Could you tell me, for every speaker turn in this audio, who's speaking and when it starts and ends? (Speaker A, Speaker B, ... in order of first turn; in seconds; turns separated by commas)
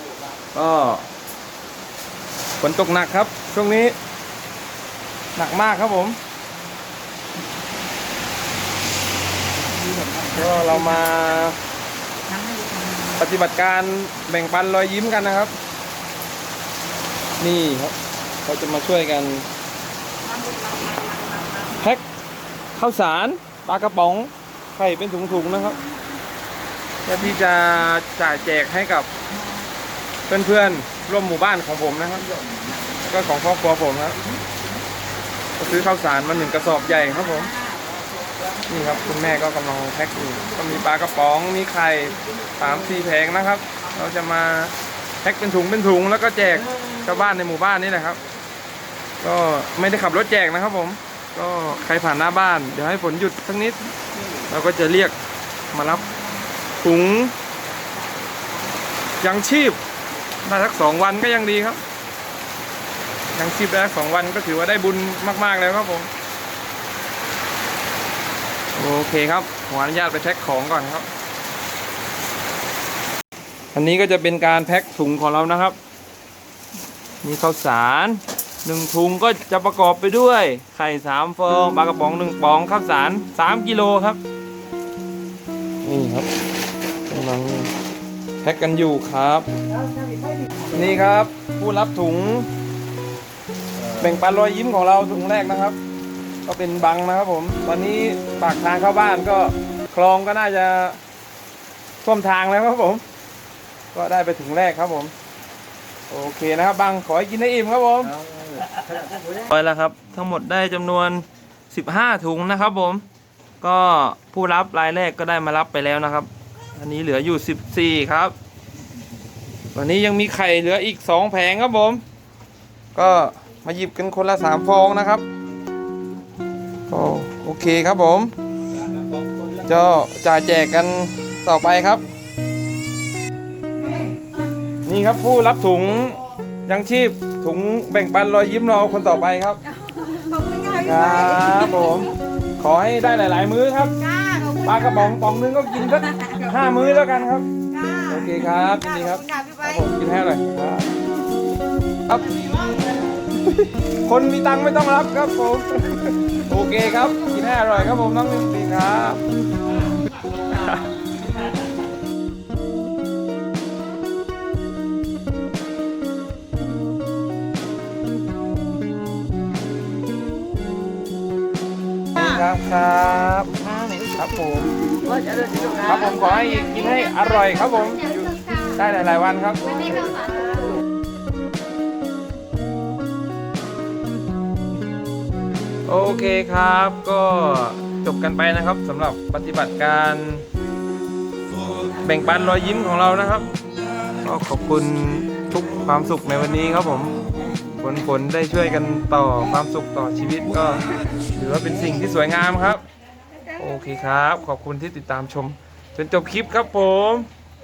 Speaker A: 0.5-1.1, Speaker A: 2.6-4.0, Speaker A: 5.3-6.2, Speaker A: 10.3-11.6, Speaker B: 12.3-13.0, Speaker A: 13.1-15.5, Speaker A: 17.4-19.5, Speaker B: 20.9-21.4, Speaker A: 21.8-22.0, Speaker A: 22.8-25.8, Speaker A: 27.1-29.1, Speaker A: 30.3-32.3, Speaker A: 33.0-34.2, Speaker A: 35.6-37.5, Speaker A: 38.7-48.2, Speaker A: 49.2-53.9, Speaker A: 54.5-55.1, Speaker A: 55.7-56.1, Speaker A: 56.8-57.3, Speaker A: 59.2-59.8, Speaker A: 60.4-61.8, Speaker A: 63.3-66.1, Speaker A: 68.8-71.1, Speaker A: 73.7-75.8, Speaker A: 77.2-84.2, Speaker A: 85.8-86.3, Speaker A: 87.1-87.7, Speaker A: 88.4-89.5, Speaker A: 90.7-92.5, Speaker A: 93.9-95.8, Speaker A: 96.5-101.0, Speaker A: 102.0-103.0, Speaker A: 103.9-105.1, Speaker A: 106.1-108.2, Speaker A: 109.3-113.0, Speaker A: 113.6-118.3, Speaker A: 119.7-122.0, Speaker A: 122.9-125.3, Speaker A: 126.9-128.3, Speaker A: 129.6-132.1, Speaker A: 134.8-139.6, Speaker B: 140.1-140.8, Speaker A: 140.8-144.0, Speaker B: 144.1-144.6, Speaker A: 144.6-147.5, Speaker B: 147.8-148.0, Speaker A: 148.0-151.0, Speaker B: 149.3-149.6, Speaker A: 152.1-152.4, Speaker A: 153.4-159.2, Speaker A: 160.5-160.8, Speaker A: 172.2-174.7, Speaker B: 175.3-175.6, Speaker A: 175.7-180.2, Speaker A: 185.9-190.5, Speaker A: 192.0-193.5, Speaker A: 194.2-197.2, Speaker A: 197.8-202.8, Speaker A: 203.6-207.3